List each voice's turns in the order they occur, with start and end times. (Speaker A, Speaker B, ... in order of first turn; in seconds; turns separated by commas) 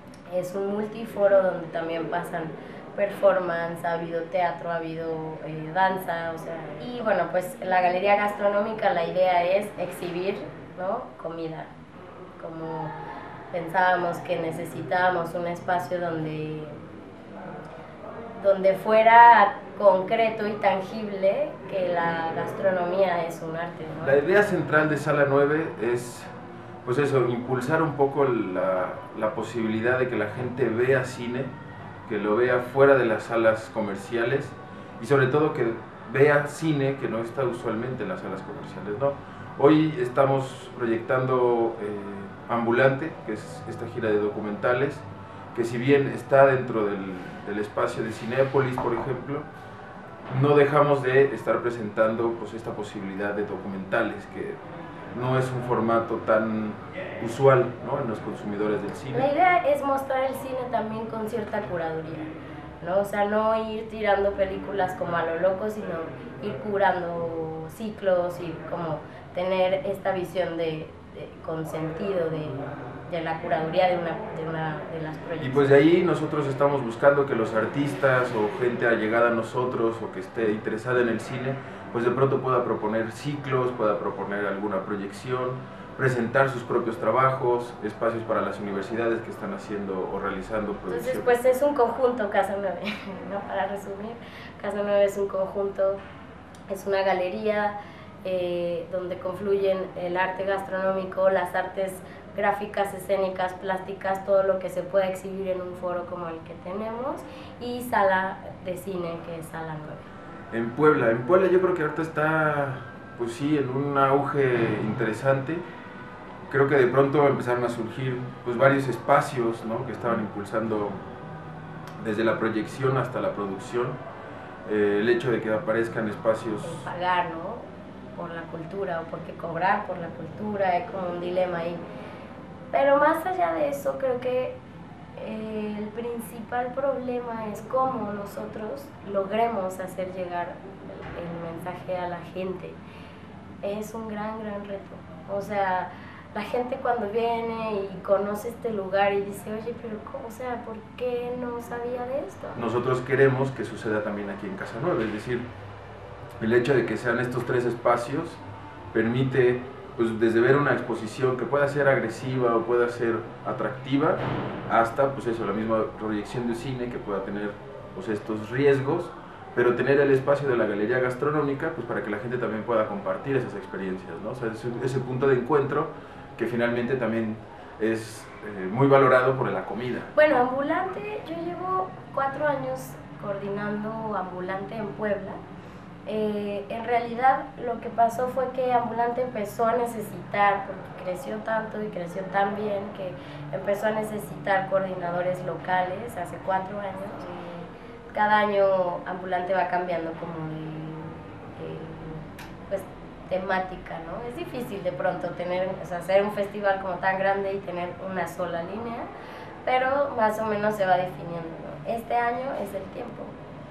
Speaker A: 0.3-11.7, Speaker A: 12.4-12.9, Speaker A: 13.5-16.7, Speaker A: 18.4-24.2, Speaker B: 24.0-26.3, Speaker B: 26.8-31.5, Speaker B: 32.0-49.5, Speaker B: 50.3-54.6, Speaker B: 55.1-59.3, Speaker A: 59.1-62.3, Speaker A: 62.8-75.8, Speaker B: 75.4-91.3, Speaker A: 90.9-96.0, Speaker A: 96.7-110.1, Speaker B: 110.5-115.6, Speaker B: 116.5-121.0, Speaker B: 122.0-124.0, Speaker B: 124.7-126.9, Speaker A: 126.6-131.8, Speaker A: 132.7-134.6, Speaker A: 135.2-142.8, Speaker A: 143.6-152.7, Speaker B: 152.6-155.5, Speaker B: 156.4-180.1, Speaker A: 180.1-185.4, Speaker A: 186.1-209.1, Speaker A: 209.6-213.4